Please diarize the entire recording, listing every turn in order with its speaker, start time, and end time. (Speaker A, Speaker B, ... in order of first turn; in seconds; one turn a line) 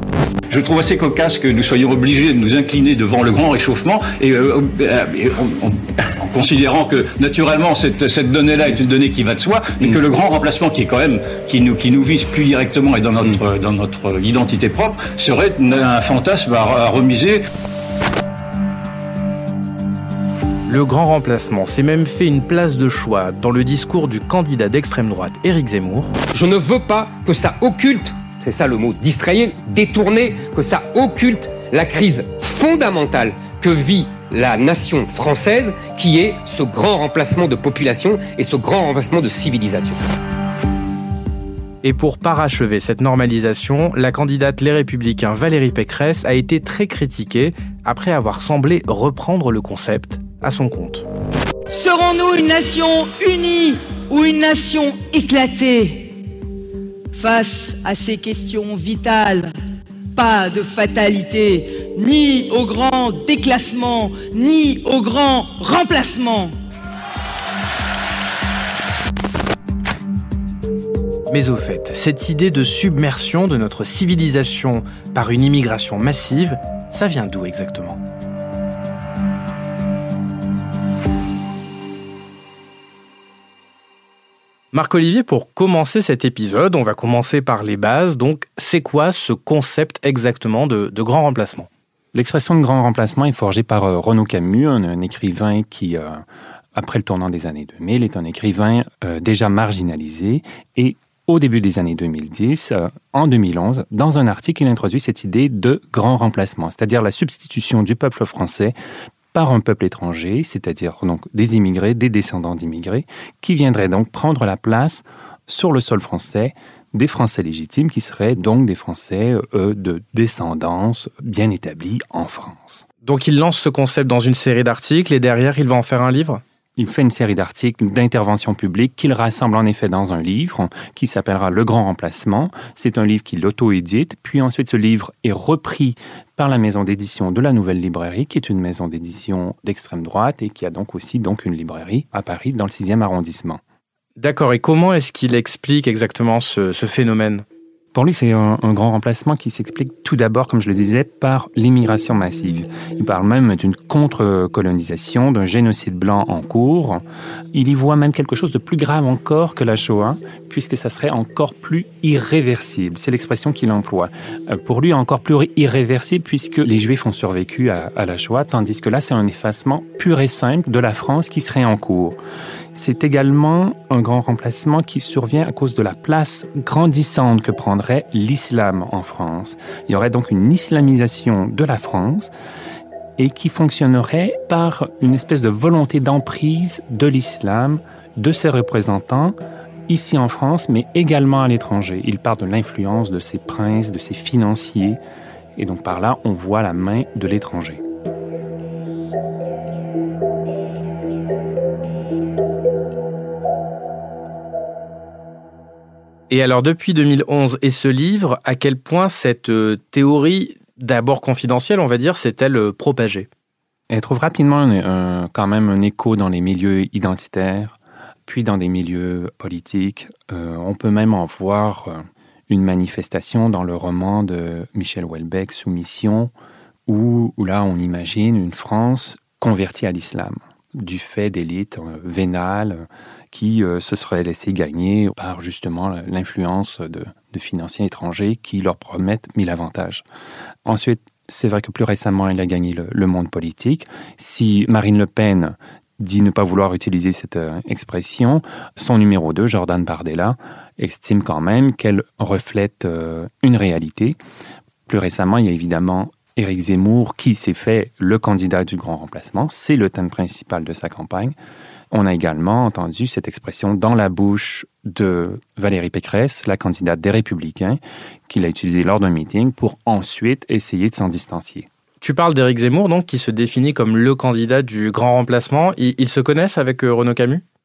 Speaker A: 0.5-17.4
Speaker B: 20.7-26.1
Speaker C: 26.3-40.0
Speaker B: 41.8-51.1
Speaker D: 51.7-56.2
Speaker D: 57.2-59.5
Speaker D: 60.2-66.5
Speaker B: 71.3-78.0
Speaker B: 84.7-91.7
Speaker E: 92.1-96.2
Speaker E: 96.8-108.8
Speaker E: 109.3-122.8
Speaker B: 123.0-126.4
Speaker E: 126.8-143.6
Speaker B: 144.2-147.4
Speaker E: 147.9-172.2
Speaker E: 172.8-182.3
Speaker E: 183.2-189.3
Speaker E: 189.9-195.0
Speaker E: 195.6-197.8
Speaker B: 206.3-213.3
Speaker E: 213.9-226.3
Speaker E: 226.9-240.1
Speaker E: 240.7-254.2
Speaker E: 254.9-261.4
Speaker E: 261.9-271.7
Speaker B: 272.0-277.4